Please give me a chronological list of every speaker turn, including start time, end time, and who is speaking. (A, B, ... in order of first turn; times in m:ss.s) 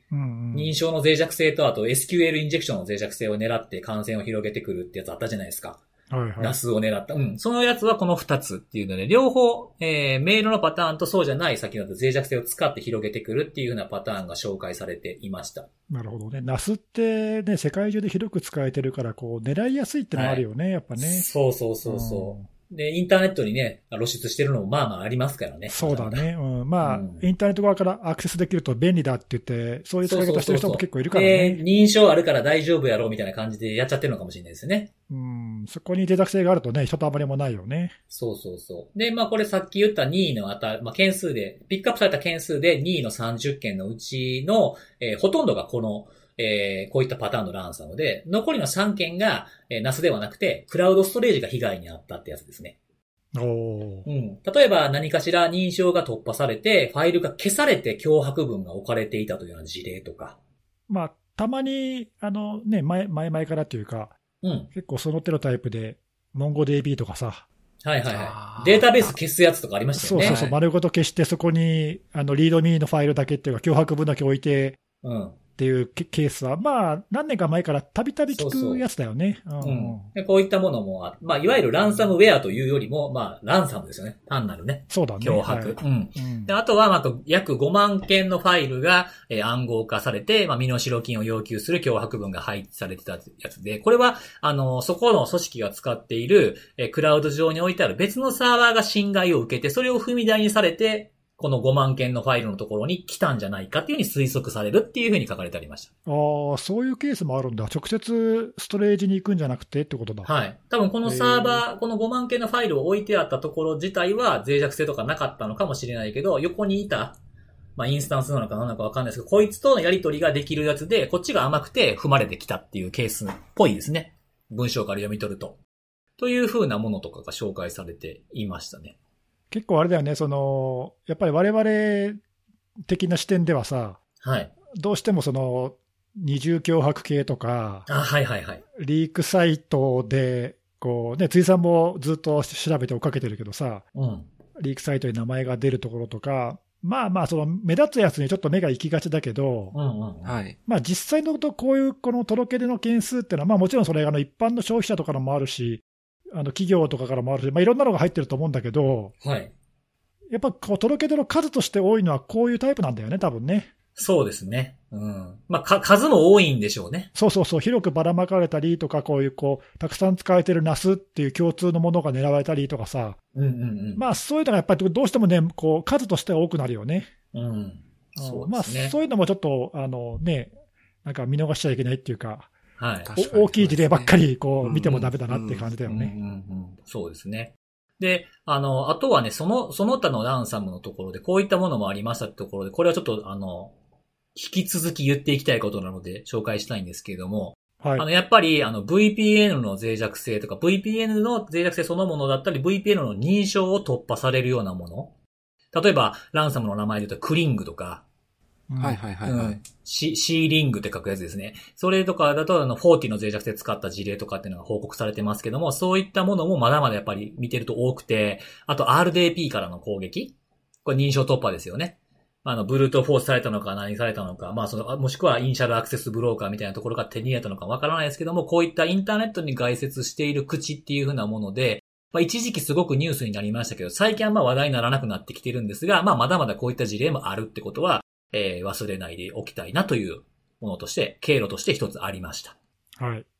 0:00.1-0:00.7 A
0:00.5-0:05.8 B
0:06.1-0:06.6 A
0:06.4-0:15.7 B
0:15.9-0:21.3 A
0:20.1-0:20.4 B
0:21.0-0:26.3 B
0:21.8-0:22.5 A
0:25.7-0:31.6 A
0:26.8-0:27.2 B
0:30.0-0:34.9 B
0:35.1-0:37.9 A
0:38.1-0:52.7 B
0:53.3-0:54.0 A
0:54.0-1:00.4 B
1:00.9-1:04.2 A
1:04.4-1:04.7 B
1:04.7-1:07.4 A
1:07.8-1:10.4 B
1:08.1-1:09.2 C
1:10.0-1:14.8 A
1:10.2-1:10.6 C
1:15.0-1:15.4 B
1:15.6-1:20.1 A
1:18.3-1:18.8 B
1:19.6-1:45.9 B
1:24.9-1:26.5 A
1:46.0-1:50.3 A
1:50.2-1:57.2 B
1:51.0-1:51.6 A
1:57.8-2:05.6 B
2:06.2-2:09.0 B
2:09.5-2:12.2 A
2:12.8-2:14.0 A
2:14.2-2:14.5 B
2:14.8-2:17.9 A
2:17.9-2:18.6 B
2:18.8-2:23.8 A
2:23.9-2:24.3 B
2:24.6-2:29.7 A
2:29.7-2:30.3 B
2:30.2-2:30.6 C
2:30.7-2:39.1 A
2:39.2-2:39.5 B
2:40.3-2:43.7 A
2:44.0-2:47.1 B
2:47.1-2:53.2 A
2:53.3-2:54.0 B
2:54.0-2:57.1 A
2:57.3-2:59.0 B
2:58.2-3:00.5 A
3:01.0-3:02.5 A
3:02.8-3:03.1 B
3:03.0-3:05.6 C
3:03.2-3:06.1 A
3:04.6-3:05.1 B
3:05.8-3:13.7 B
3:14.3-3:25.1 B
3:17.8-3:18.0 A
3:25.7-3:28.0 B
3:28.7-3:29.0 A
3:28.8-3:29.6 C
3:29.2-4:02.6 B
4:03.0-4:03.2 A